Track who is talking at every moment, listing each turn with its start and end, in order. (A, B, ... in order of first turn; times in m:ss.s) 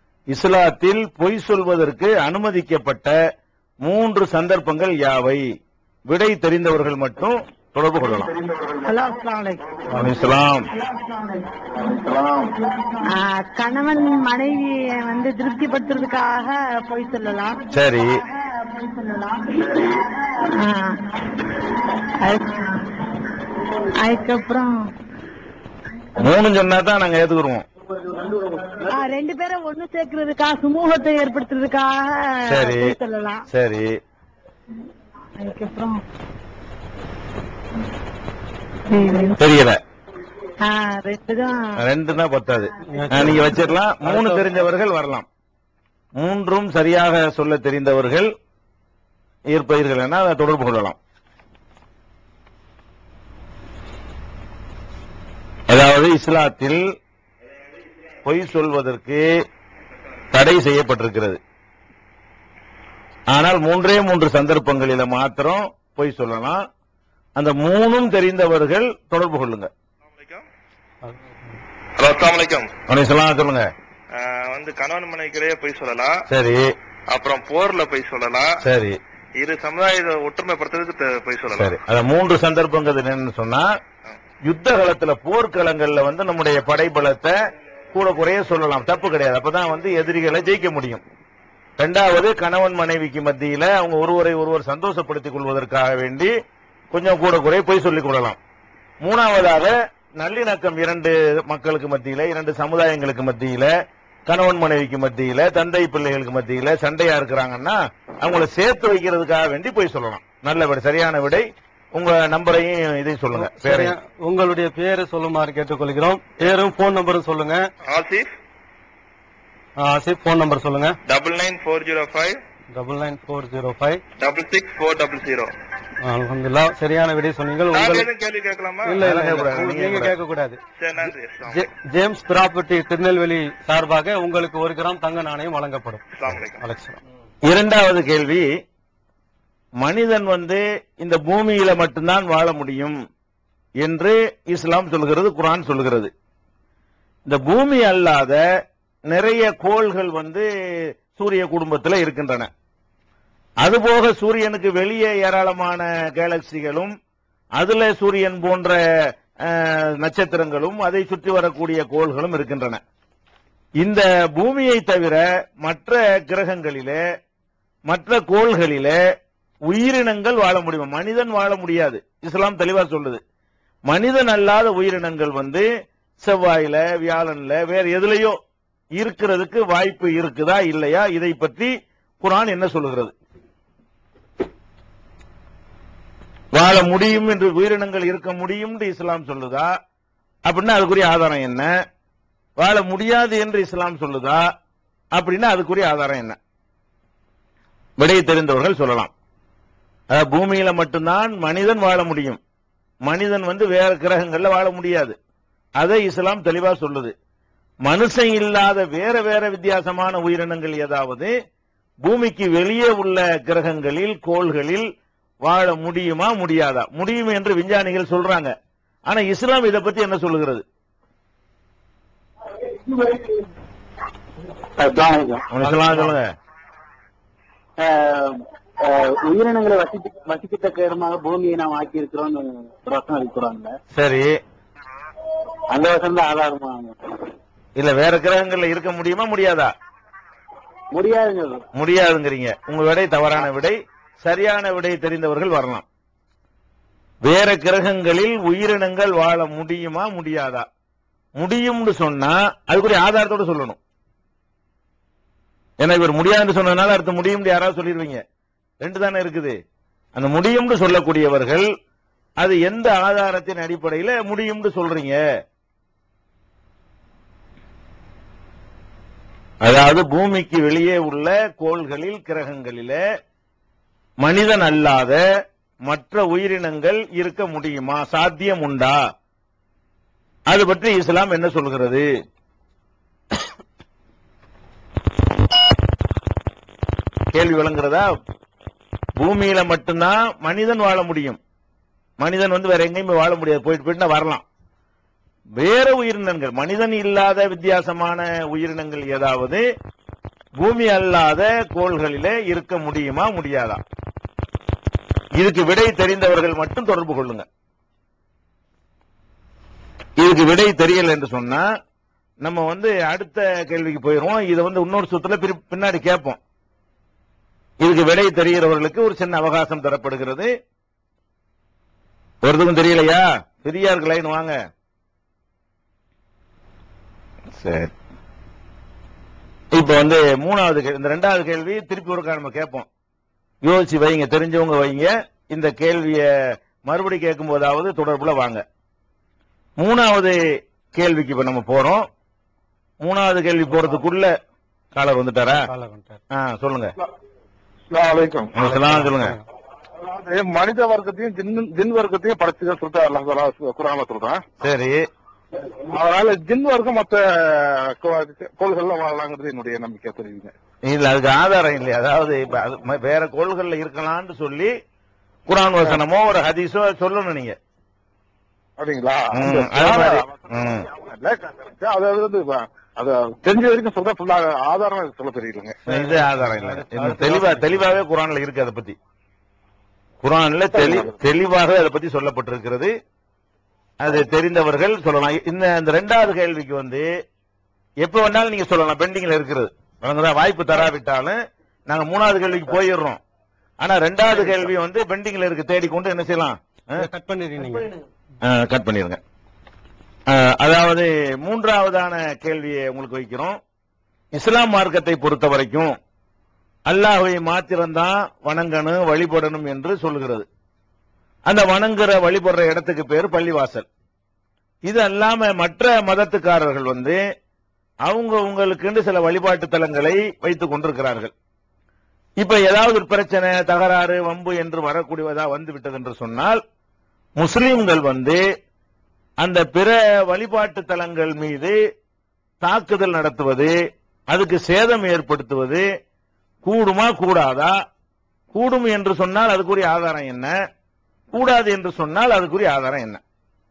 0:00.3-0:03.1 A
0:03.8-0:05.4 A
0:06.1-0:08.3 A
0:08.4-0:08.8 B
0:08.8-0:11.6 C
0:09.9-0:10.7 A
0:11.8-0:12.5 B
0:13.0-0:20.9 C
0:17.7-0:18.1 A
0:22.2-0:23.2 C
0:24.0-0:24.8 C
0:26.2-0:27.6 A
0:28.8-0:33.4 C
0:32.5-0:32.9 A
0:33.5-0:34.0 A
0:35.4-0:36.0 C
0:38.9-0:39.4 C
0:39.4-0:39.8 A
0:40.6-0:41.7 C
0:41.8-0:45.3 A
0:42.9-0:44.5 D
0:46.2-0:48.3 A
0:49.5-0:51.0 A
0:55.7-0:56.8 A
0:58.2-0:59.2 A
1:00.3-1:01.4 A
1:03.3-1:06.6 A
1:07.4-1:09.7 A
1:10.1-1:10.4 E
1:11.0-1:11.6 D
1:12.0-1:12.7 E
1:12.9-1:13.6 A
1:14.1-1:16.2 E
1:16.3-1:16.7 A
1:17.1-1:18.6 E
1:18.6-1:19.0 A
1:19.4-1:21.8 E
1:21.6-1:23.7 A
1:24.5-1:27.3 A
1:27.9-1:31.0 A
1:31.8-1:36.3 A
1:36.9-1:38.4 A
1:39.0-1:43.7 A
1:44.3-1:54.0 A
1:53.3-1:57.6 D
1:57.8-1:58.3 E
1:59.8-2:00.9 D
2:01.1-2:02.4 E
2:02.7-2:04.0 D
2:04.2-2:05.5 E
2:06.0-2:08.1 D
2:07.7-2:09.0 E
2:08.8-2:17.0 D
2:09.0-2:10.1 A
2:10.8-2:11.7 E
2:16.1-2:16.6 E
2:17.5-2:18.5 A
2:19.8-2:23.0 A
2:23.8-2:26.1 A
2:27.2-2:28.4 A
2:29.1-2:30.5 A
2:31.1-2:32.5 A
2:33.6-2:36.9 A
2:37.6-2:38.8 A
2:39.5-2:42.8 A
2:43.8-2:47.0 A
2:47.9-2:49.0 A
2:49.7-2:53.2 A
2:53.9-2:55.6 A
2:56.2-2:58.4 A
2:59.0-3:01.7 A
3:02.2-3:03.1 A
3:06.5-3:09.7 A
3:10.5-3:11.7 A
3:12.6-3:14.4 A
3:15.1-3:16.4 A
3:18.0-3:19.1 A
3:20.1-3:22.4 A
3:23.1-3:25.2 A
3:25.8-3:27.1 A
3:27.9-3:31.3 A
3:32.0-3:34.8 A
3:35.4-3:38.5 A
3:39.1-3:40.6 A
3:42.9-3:43.3 F
3:44.8-3:45.5 F
3:45.5-3:46.3 A
3:45.6-3:46.2 D
3:47.8-3:53.7 F
3:54.0-3:54.4 A
3:55.7-3:56.9 F
3:57.8-3:59.7 A
4:00.9-4:01.6 F
4:01.8-4:05.8 A
4:07.2-4:10.6 A
4:11.4-4:13.8 A
4:15.8-4:18.2 A
4:18.8-4:19.6 A
4:20.2-4:21.6 A
4:22.4-4:25.2 A
4:29.6-4:33.0 A
4:34.2-4:35.2 A
4:35.9-4:39.0 A
4:40.5-4:42.1 A
4:47.3-4:48.1 A
4:49.2-4:51.4 A
4:52.2-4:54.4 A
4:55.6-4:59.6 A
5:00.6-5:03.8 A
5:05.4-5:07.4 A
5:10.2-5:11.6 A
5:12.4-5:16.4 A
5:17.8-5:20.5 A
5:22.4-5:24.6 A
5:27.5-5:27.9 A
5:29.7-5:32.9 A
5:33.6-5:36.2 A
5:36.9-5:38.6 A
5:39.8-5:40.4 A
5:40.9-5:42.0 A
5:43.0-5:44.3 A
5:44.9-5:45.7 A
5:45.4-5:46.2 D
5:46.3-5:46.9 A
5:47.9-5:48.6 B
5:48.6-5:49.4 A
5:48.6-5:49.4 D
5:50.0-5:54.4 B
5:54.6-5:55.0 A
5:55.8-6:00.5 B
6:00.9-6:04.7 A
6:05.5-6:07.5 A
6:08.8-6:10.4 B
6:09.3-6:10.9 A
6:10.9-6:15.8 B
6:15.8-6:18.0 D
6:15.9-6:19.0 A
6:20.2-6:22.9 A
6:20.7-6:21.1 B
6:24.0-6:27.1 A
6:28.0-6:31.4 A
6:31.9-6:33.2 A
6:33.8-6:37.1 A
6:34.3-6:34.7 D
6:37.0-6:38.0 D
6:38.4-6:39.2 A
6:40.3-6:43.6 A
6:44.3-6:45.9 A
6:46.9-6:50.5 A
6:51.5-6:53.8 A
6:54.9-6:57.2 A
6:58.1-7:01.3 A
7:02.4-7:06.6 A
7:07.4-7:08.4 A
7:09.4-7:11.7 A
7:12.6-7:13.7 A
7:14.3-7:15.8 A
7:16.6-7:17.7 A
7:18.5-7:20.5 A
7:21.3-7:23.2 A